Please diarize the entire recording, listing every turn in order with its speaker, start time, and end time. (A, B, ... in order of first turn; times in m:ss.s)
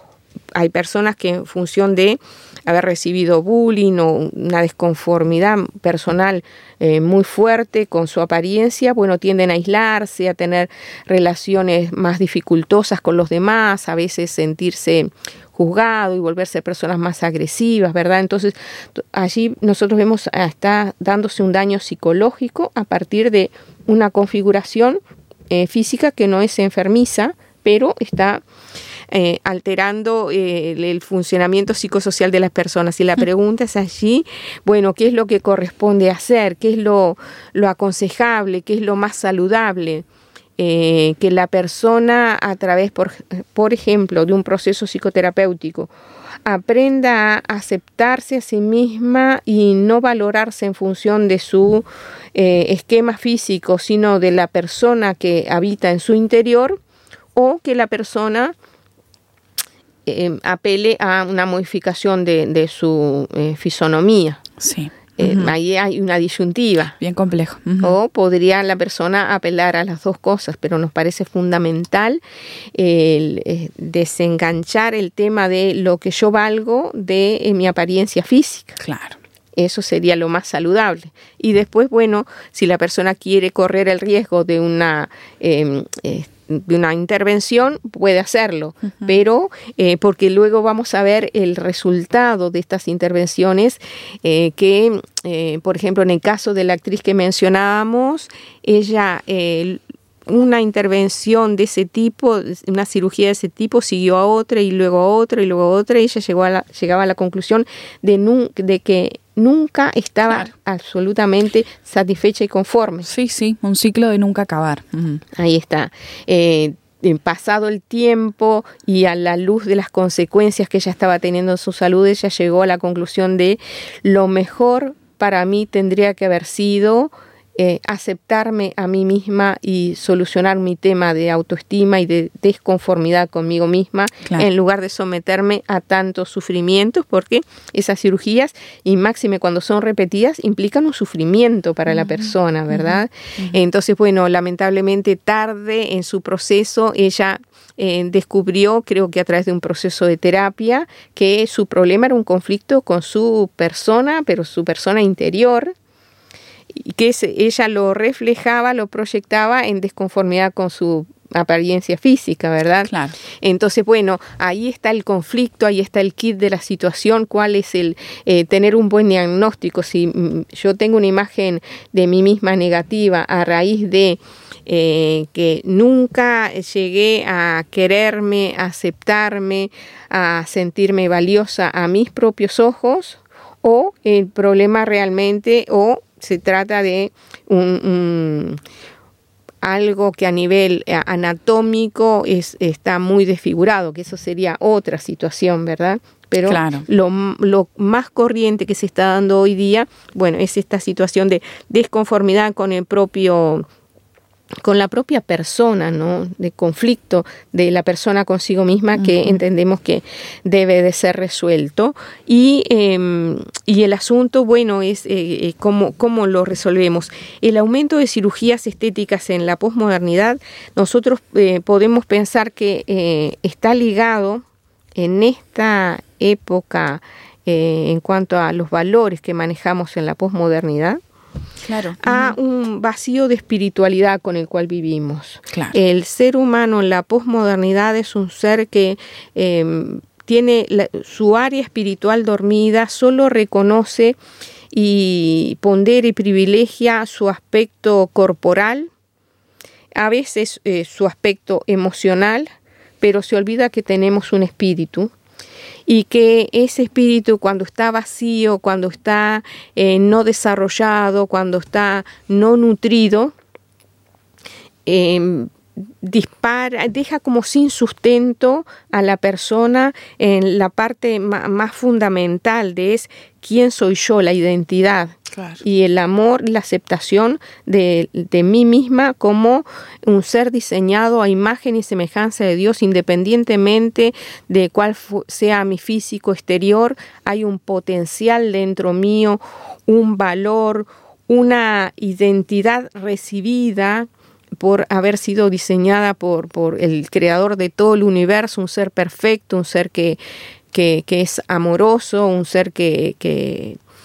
0:00.5-0:28.4 A
0:29.1-0:40.0 A
0:40.6-0:45.9 A
0:46.4-0:56.8 A
0:57.4-0:58.6 A
1:00.1-1:04.4 A
1:04.6-1:05.5 B
1:05.2-1:06.9 A
1:07.0-1:08.0 B
1:07.8-1:12.2 A
1:12.8-1:18.8 A
1:18.8-1:19.2 B
1:19.6-1:53.1 A
1:53.0-1:55.2 B
1:55.4-2:35.7 A
2:22.7-2:23.6 B
2:36.7-3:08.6 A
2:42.9-2:43.2 B
3:09.6-3:23.7 A
3:16.4-3:16.9 B
3:24.6-3:44.4 A
3:29.0-3:29.3 B
3:45.0-3:51.0 A
3:51.6-3:52.4 B
3:52.0-4:04.2 A
3:55.5-3:55.8 B
4:04.7-4:08.9 A
4:10.0-4:12.5 A
4:13.0-4:15.1 A
4:15.9-4:23.3 A
4:24.9-5:00.2 A
4:35.4-4:35.6 B
5:00.7-5:03.8 A